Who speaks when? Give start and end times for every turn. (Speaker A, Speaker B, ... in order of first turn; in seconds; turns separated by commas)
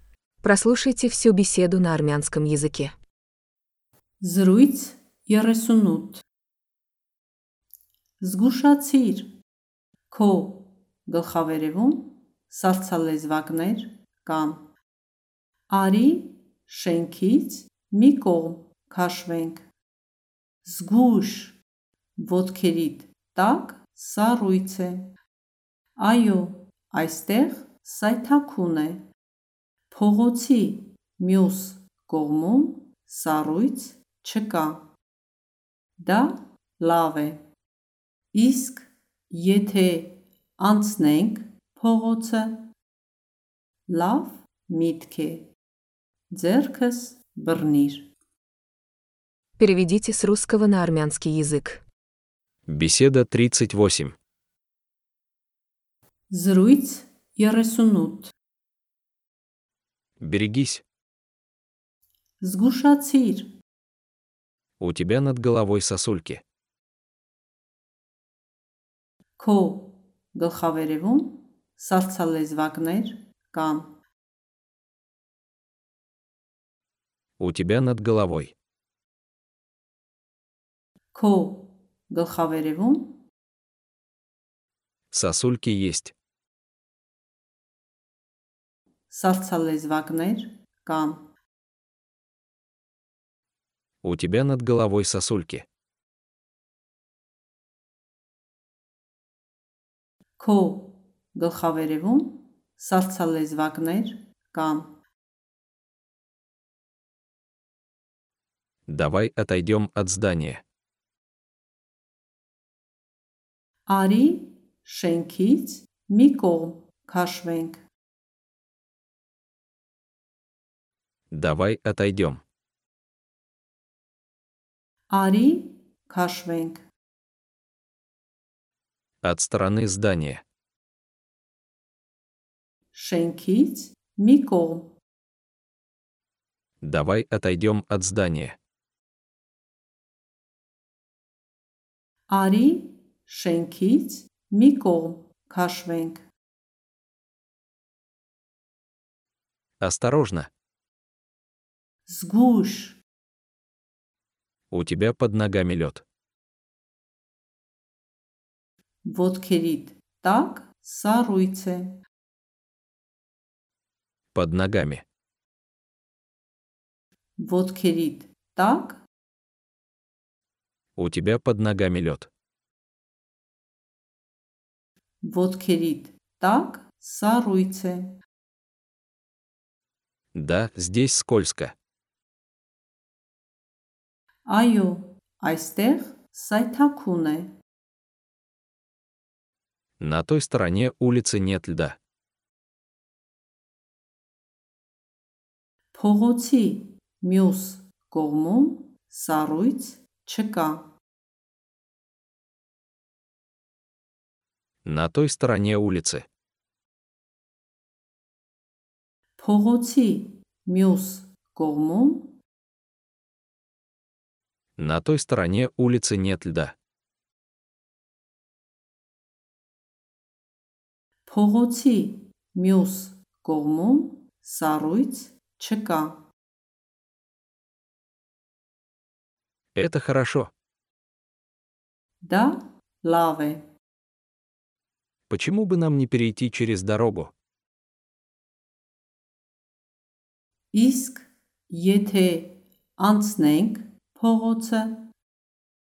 Speaker A: 0.4-2.9, Speaker B: 4.2-6.2, Speaker B: 8.2-9.3, Speaker B: 10.1-14.7, Speaker B: 15.7-19.7, Speaker B: 20.6-21.6, Speaker B: 22.2-25.1, Speaker B: 26.0-29.1, Speaker B: 29.9-34.9, Speaker B: 36.0-37.4, Speaker B: 38.3-42.7, Speaker B: 43.9-45.5, Speaker B: 46.3-48.1, Speaker A: 49.6-51.8, Speaker C: 52.7-54.1, Speaker B: 56.3-58.3, Speaker C: 60.2-60.8, Speaker B: 62.4-63.5, Speaker C: 64.8-66.4, Speaker B: 69.4-73.9, Speaker C: 77.4-78.5, Speaker B: 81.1-83.2, Speaker C: 85.1-86.1, Speaker B: 89.1-91.3, Speaker C: 94.0-95.7, Speaker B: 100.4-105.0, Speaker C: 108.9-110.6, Speaker B: 113.9-117.8, Speaker C: 121.3-122.4, Speaker B: 125.1-126.8, Speaker C: 129.2-130.4, Speaker B: 132.9-135.0, Speaker C: 136.8-138.6, Speaker B: 142.3-146.2, Speaker C: 149.8-150.5, Speaker B: 152.1-153.0, Speaker C: 154.7-156.0, Speaker B: 159.0-162.0, Speaker C: 164.3-165.0, Speaker B: 167.4-169.0, Speaker C: 170.9-172.3, Speaker B: 175.2-178.2, Speaker C: 180.3-181.7, Speaker B: 184.4-187.5, Speaker C: 190.0-192.0, Speaker B: 195.9-200.9, Speaker C: 204.8-206.3, Speaker B: 209.4-212.4, Speaker C: 214.8-216.7, Speaker B: 221.2-226.2, Speaker C: 229.7-230.5, Speaker B: 232.2-233.7, Speaker C: 235.3-237.3, Speaker B: 240.7-245.1